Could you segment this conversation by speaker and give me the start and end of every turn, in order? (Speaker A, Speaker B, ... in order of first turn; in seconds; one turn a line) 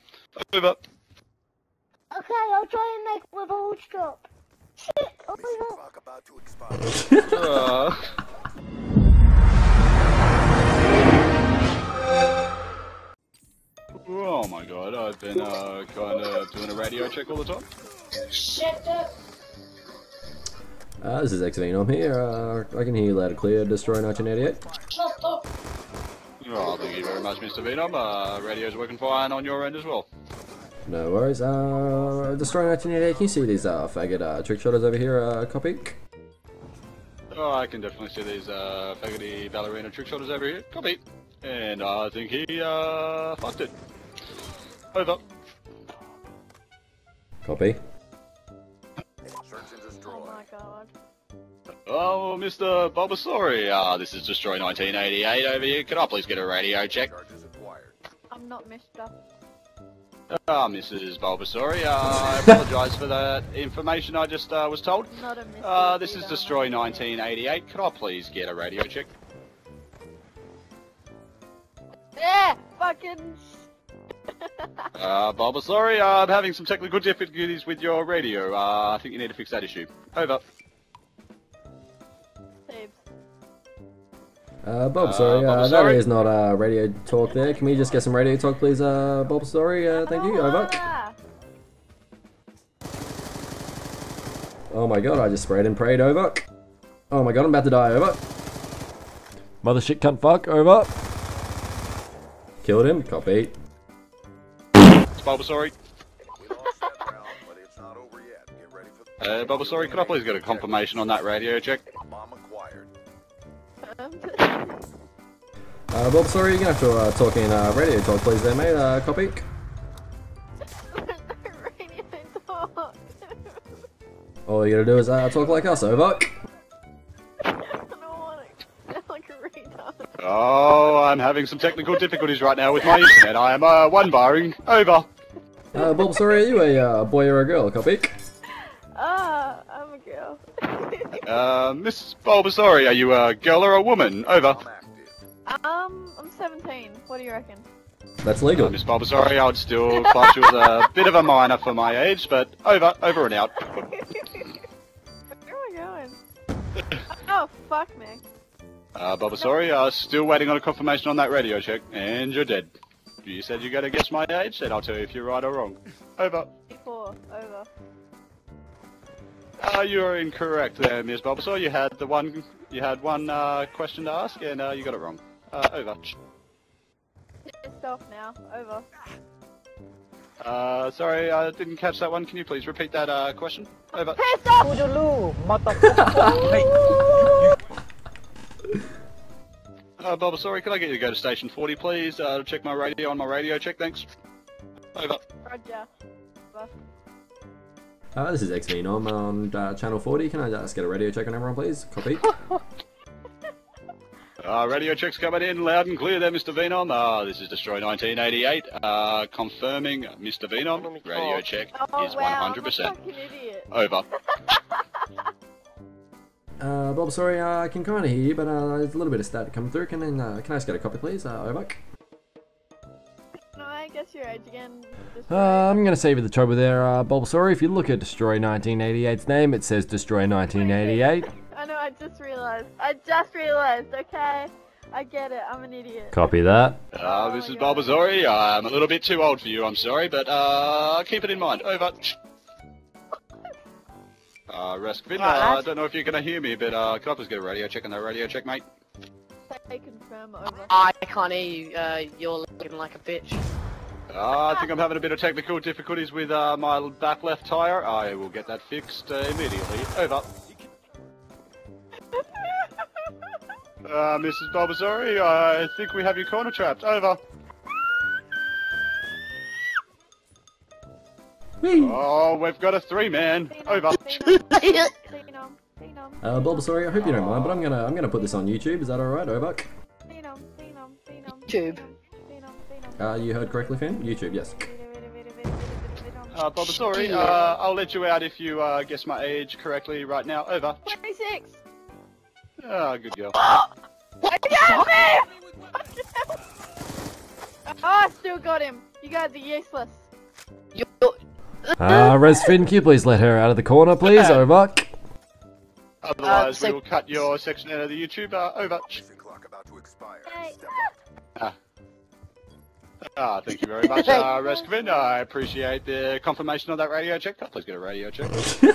Speaker A: 0.5-0.8
Speaker B: 2.1-4.2
Speaker B: 4.9-5.8
Speaker C: 5.3-7.2
Speaker A: 7.2-8.1
Speaker A: 13.9-17.7
Speaker B: 18.3-19.1
Speaker D: 21.0-24.6
Speaker C: 23.3-25.0
Speaker B: 25.0-25.4
Speaker A: 26.4-30.1
Speaker D: 30.9-36.0
Speaker C: 31.6-33.8
Speaker A: 37.3-43.8
Speaker A: 44.9-45.2
Speaker D: 47.4-47.8
Speaker C: 49.2-50.5
Speaker E: 50.1-50.9
Speaker A: 51.9-57.1
Speaker C: 57.0-58.0
Speaker E: 58.3-59.1
Speaker A: 60.3-69.1
Speaker E: 65.1-67.1
Speaker E: 72.2-73.7
Speaker E: 74.4-74.9
Speaker A: 75.0-80.4
Speaker E: 82.7-83.0
Speaker D: 84.6-90.9
Speaker A: 85.0-86.0
Speaker E: 89.9-91.2
Speaker D: 94.7-96.4
Speaker D: 97.1-98.2
Speaker D: 99.6-100.9
Speaker D: 102.6-103.5
Speaker A: 105.2-105.8
Speaker C: 106.3-111.4
Speaker A: 109.2-111.8
Speaker C: 112.0-112.9
Speaker E: 113.8-114.8
Speaker D: 115.9-119.5
Speaker E: 120.9-123.6
Speaker D: 124.5-126.3
Speaker E: 127.4-130.1
Speaker A: 130.2-135.1
Speaker D: 135.7-138.1
Speaker E: 135.8-136.2
Speaker E: 138.9-141.2
Speaker A: 141.1-144.6
Speaker C: 144.2-145.2
Speaker E: 145.5-147.7
Speaker D: 148.2-148.8
Speaker A: 148.5-153.7
Speaker E: 153.7-154.5
Speaker E: 155.4-156.2
Speaker E: 157.1-158.2
Speaker A: 159.0-162.7
Speaker A: 163.2-166.5
Speaker E: 166.7-167.7
Speaker A: 169.6-176.2
Speaker E: 177.5-178.9
Speaker A: 180.4-184.2
Speaker E: 184.2-184.9
Speaker F: 184.6-186.7
Speaker G: 185.2-185.6
Speaker D: 185.8-186.1
Speaker E: 186.1-187.6
Speaker G: 186.3-186.7
Speaker A: 190.0-194.1
Speaker A: 194.9-195.2
Speaker E: 195.4-195.9
Speaker D: 198.2-202.3
Speaker A: 204.4-213.0
Speaker F: 210.8-211.4
Speaker E: 211.7-213.7
Speaker A: 213.7-214.1
Speaker D: 216.6-221.8
Speaker E: 223.6-225.8
Speaker D: 225.3-231.3
Speaker E: 230.5-236.3
Speaker D: 236.1-236.8
Speaker A: 236.9-242.2
Speaker E: 237.0-238.0
Speaker A: 244.5-248.6
Speaker E: 245.2-245.6
Speaker E: 249.5-250.9
Speaker G: 250.7-253.4
Speaker A: 254.1-260.3
Speaker E: 262.2-262.9
Speaker A: 263.8-267.2
Speaker D: 271.6-272.0
Speaker A: 271.8-274.4
Speaker E: 273.5-276.9
Speaker F: 274.5-274.9
Speaker D: 276.2-279.7
Speaker A: 277.0-277.6
Speaker E: 280.1-286.5
Speaker D: 283.0-284.7
Speaker A: 286.3-290.9
Speaker E: 290.9-291.6
Speaker A: 292.6-293.4
Speaker E: 294.2-295.3
Speaker E: 296.0-296.3
Speaker E: 297.8-300.1
Speaker F: 300.8-301.1
Speaker D: 301.8-304.9
Speaker A: 304.0-304.4
Speaker A: 306.0-309.0
Speaker C: 308.9-310.9
Speaker E: 310.3-310.6
Speaker A: 313.1-318.4
Speaker E: 313.8-315.2